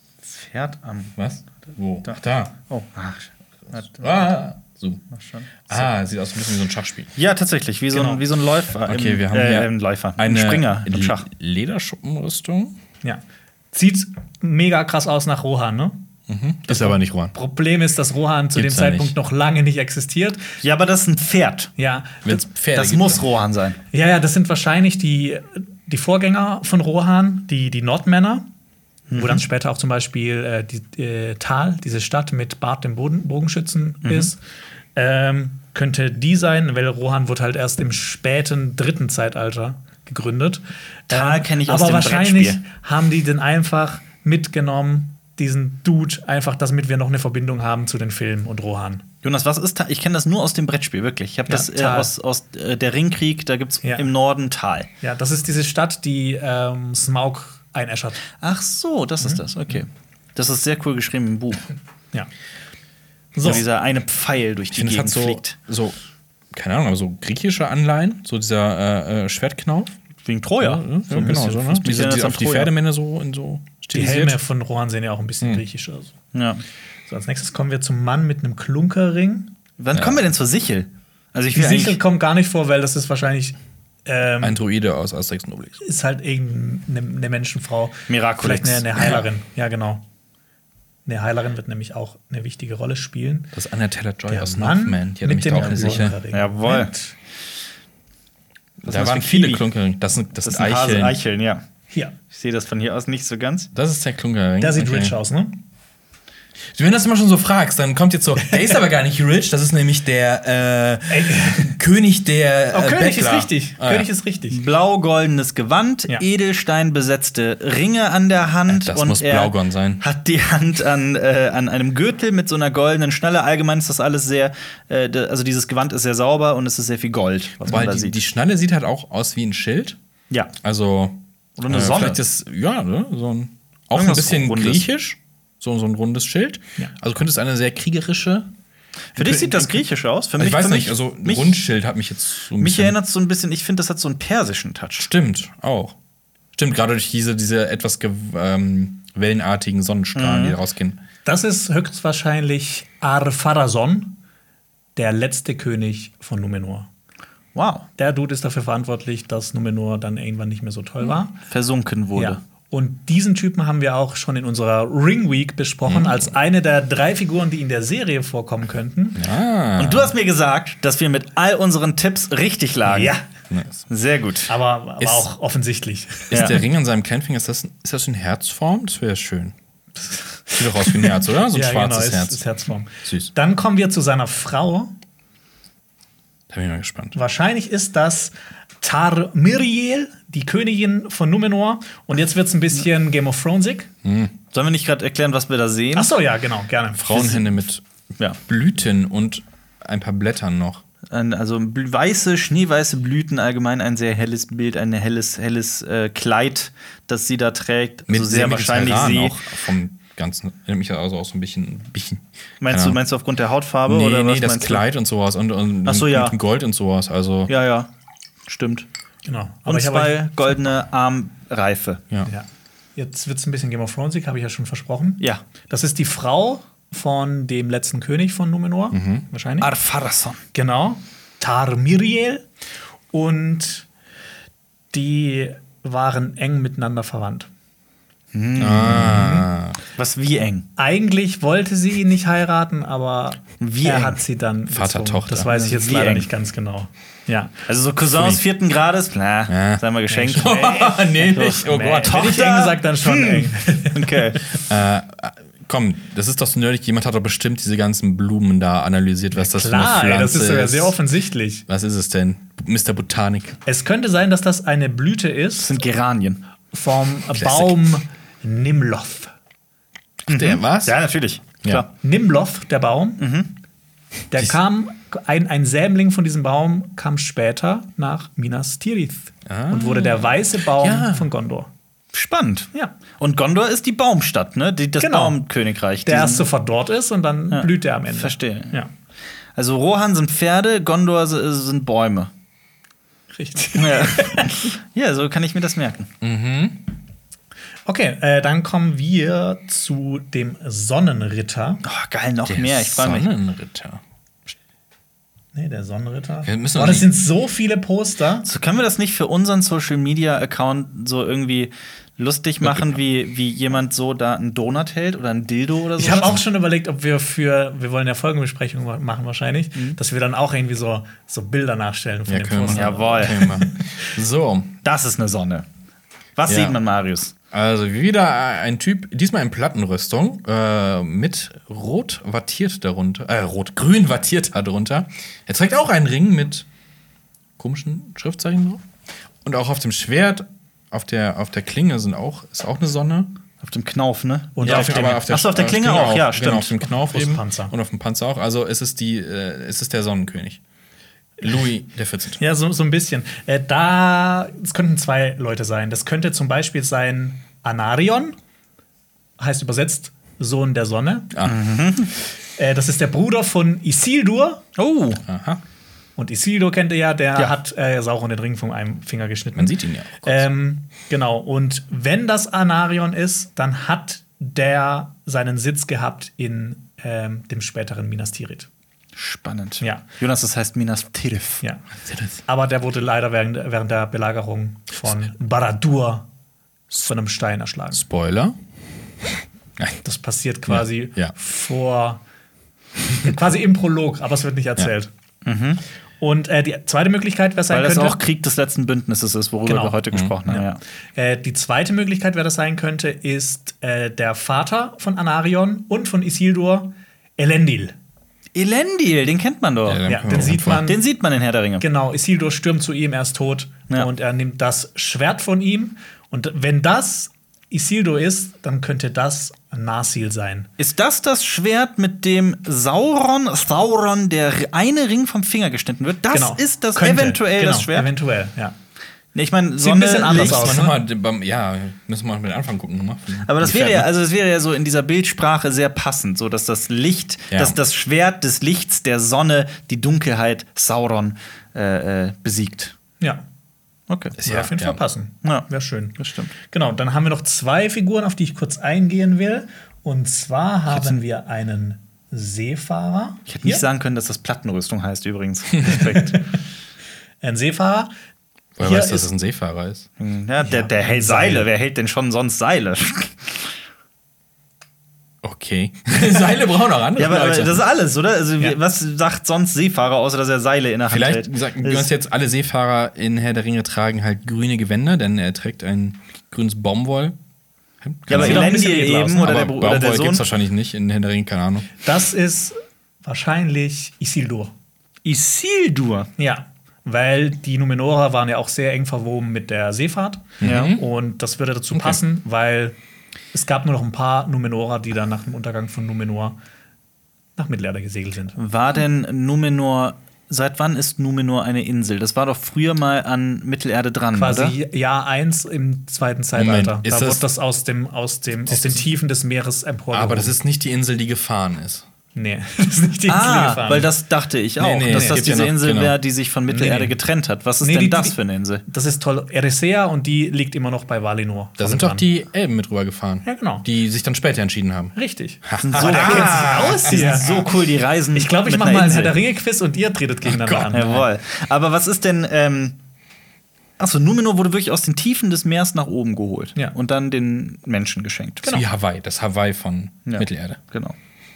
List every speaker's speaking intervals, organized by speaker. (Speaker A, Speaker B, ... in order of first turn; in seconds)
Speaker A: 0.2-1.1, 2.0-4.4, 5.1-5.9, 7.2-11.3, 20.6-21.7, 22.7-23.8, 29.1-29.4, 34.0-34.3, 41.1-42.6, 49.2-54.9, 58.4-61.7, 63.4-65.5, 70.2-72.7, 76.3-76.6, 79.8-82.0, 88.1-89.2, 95.6-96.9, 98.8-99.6, 100.4-101.6, 102.3-103.7, 114.5-128.2, 131.6-132.2, 133.9-134.8, 139.2-141.6, 142.6-145.1, 150.1-150.6, 157.6-157.9, 161.4-162.4, 169.8-173.2, 173.9-174.5, 176.3-176.6, 194.5-196.1, 201.1-209.4, 212.6-214.8, 215.9-216.4, 217.5-217.9, 218.5-218.9, 219.7-222.0, 229.6-230.4, 238.3-239.2, 239.9-240.7, 243.6-244.2, 245.5-246.3, 247.7-250.7, 251.3-254.5, 265.6-266.4, 270.3-271.9, 273.2-273.5, 282.1-286.5, 287.5-288.8, 289.6-292.3, 293.7-296.1, 301.9-303.3, 308.4-316.4, 322.7-323.4, 324.8-325.7, 326.4-327.3, 343.6-346.7, 361.4-362.1, 364.8-365.2, 379.2-381.6, 395.4-395.8, 397.7-400.8, 408.6-410.1, 410.7-411.9, 420.8-428.1, 429.3-430.8, 433.5-442.9, 444.1-444.4, 445.4-446.5, 450.9-451.2, 453.5-456.5, 460.2-463.7, 467.2-472.1, 478.3-480.4, 485.2-486.3, 490.6-490.9, 498.6-504.7, 513.3-518.8, 525.8-529.4, 530.9-533.0, 534.0-538.7, 540.3-541.1
Speaker B: 1.2-2.6, 3.7-5.1, 5.7-7.1, 8.7-12.8, 16.3-17.3, 18.6-19.1, 22.2-23.2, 64.7-66.0, 66.5-69.9, 70.6-74.4, 79.9-80.2, 84.4-85.8, 93.5-96.2, 98.8-101.2, 103.7-105.2, 106.7-114.1, 118.7-120.0, 127.6-130.0, 130.6-138.5, 139.2-139.8, 140.4-142.9, 145.0-145.9, 146.6-151.0, 165.9-166.3, 169.2-170.1, 173.5-173.8, 175.0-175.3, 176.3-179.6, 180.5-182.4, 183.0-183.3, 186.5-187.2, 194.0-194.3, 197.0-197.8, 198.4-200.8, 208.1-213.0, 213.9-217.5, 228.9-229.2, 238.6-239.8, 244.7-245.5, 248.1-248.4, 249.5-252.3, 254.7-260.9, 261.7-263.6, 267.4-267.8, 270.3-271.0, 279.4-281.3, 296.2-296.8, 302.5-304.0, 306.4-307.1, 312.6-313.0, 322.3-324.8, 326.5-326.8, 327.5-336.7, 337.6-338.8, 339.4-343.3, 344.6-350.6, 351.4-352.4, 365.3-365.6, 369.6-370.4, 382.1-382.4, 387.9-388.6, 390.7-391.3, 409.9-410.9, 430.3-434.1, 437.5-437.8, 444.4-445.0, 458.8-460.1, 465.4-467.9, 471.1-477.4, 478.0-478.8, 479.4-481.9, 490.6-491.0, 491.9-492.2, 506.6-507.4, 510.1-512.1, 514.8-516.1, 521.8-527.7, 530.5-531.3, 538.7-540.8
Speaker C: 7.9-8.2, 13.0-16.0, 16.7-20.5, 21.8-22.4, 23.9-28.4, 29.1-34.4, 35.0-49.0, 51.5-52.1, 53.8-54.1, 55.0-58.2, 63.4-63.6, 74.0-76.1, 77.1-79.5, 81.5-84.6, 85.8-90.0, 91.1-93.5, 94.3-97.1, 104.6-105.6, 111.1-111.8, 112.7-114.6, 151.2-154.2, 154.9-156.9, 158.0-161.3, 162.1-169.2, 172.9-173.2, 174.5-176.5, 180.3-184.9, 187.1-193.9, 195.9-197.6, 219.3-220.2, 222.2-229.7, 230.5-232.5, 233.1-233.9, 234.9-237.5, 238.8-239.5, 240.8-247.6, 250.1-254.6, 259.3-261.6, 263.6-265.8, 266.7-269.3, 272.0-273.2, 274.3-281.7, 285.0-285.4, 286.0-288.9, 293.3-294.7, 297.9-301.8, 305.6-308.4, 316.0-324.2, 344.6-345.2, 346.8-347.7, 352.4-358.4, 359.4-361.3, 362.6-364.6, 366.2-378.7, 382.4-386.3, 386.9-388.0, 390.0-392.2, 393.2-395.1, 396.2-398.2, 399.7-407.9, 410.1-411.0, 411.8-420.7, 426.3-428.7, 429.8-430.9, 444.4-453.9, 455.9-456.4, 457.4-458.1, 458.8-459.3, 460.6-461.7, 478.3-479.5, 482.0-484.7, 486.4-493.0, 493.5-496.6, 497.6-498.6, 504.4-510.6, 512.4-514.1, 515.1-515.4, 516.7-517.1, 517.8-522.3, 523.5-523.9, 525.1-527.7, 528.3-531.2